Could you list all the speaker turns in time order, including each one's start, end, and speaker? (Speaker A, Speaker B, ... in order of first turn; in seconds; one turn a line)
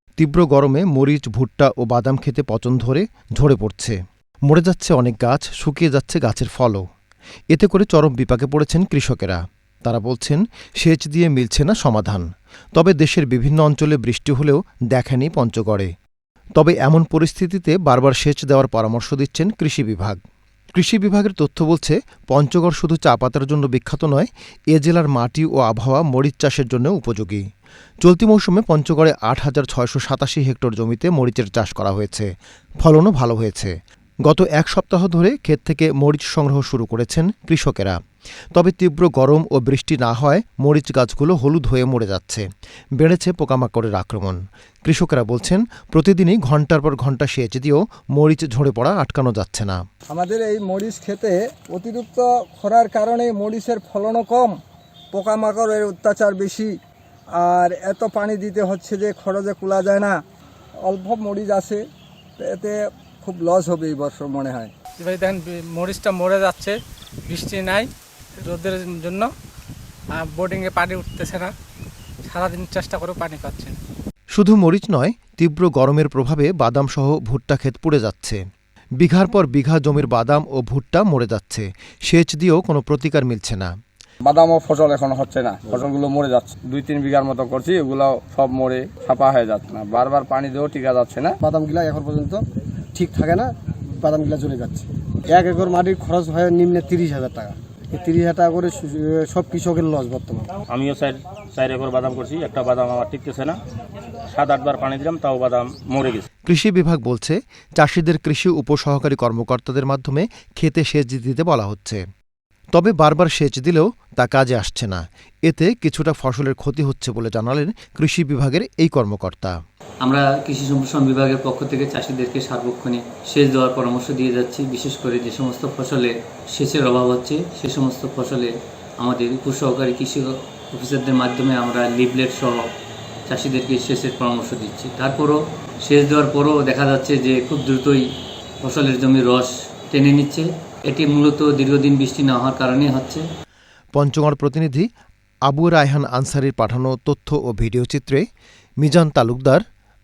Speaker A: 0.2-3.9
Speaker A: 4.5-6.8
Speaker A: 7.5-15.9
Speaker A: 16.6-20.2
Speaker A: 20.8-27.4
Speaker A: 28.0-32.3
Speaker A: 32.8-33.7
Speaker A: 34.2-38.0
Speaker A: 38.5-42.4
Speaker A: 43.0-49.8
Speaker B: 50.1-54.5
Speaker B: 55.1-56.7
Speaker B: 57.4-60.2
Speaker B: 60.9-61.8
Speaker B: 62.4-64.7
Speaker C: 65.0-66.7
Speaker C: 67.3-67.9
Speaker C: 68.4-69.3
Speaker C: 70.2-71.5
Speaker C: 72.3-73.8
Speaker A: 74.3-78.4
Speaker A: 79.0-83.7
Speaker D: 84.2-91.3
Speaker E: 91.4-92.4
Speaker E: 92.9-93.5
Speaker E: 94.0-100.5
Speaker F: 100.7-103.6
Speaker F: 104.3-106.2
Speaker A: 106.5-112.0
Speaker A: 112.7-119.5
Speaker G: 120.0-132.7
Speaker G: 133.3-138.0
Speaker G: 138.6-143.2
Speaker A: 143.9-144.8
Speaker A: 145.5-148.2
Speaker A: 148.8-149.6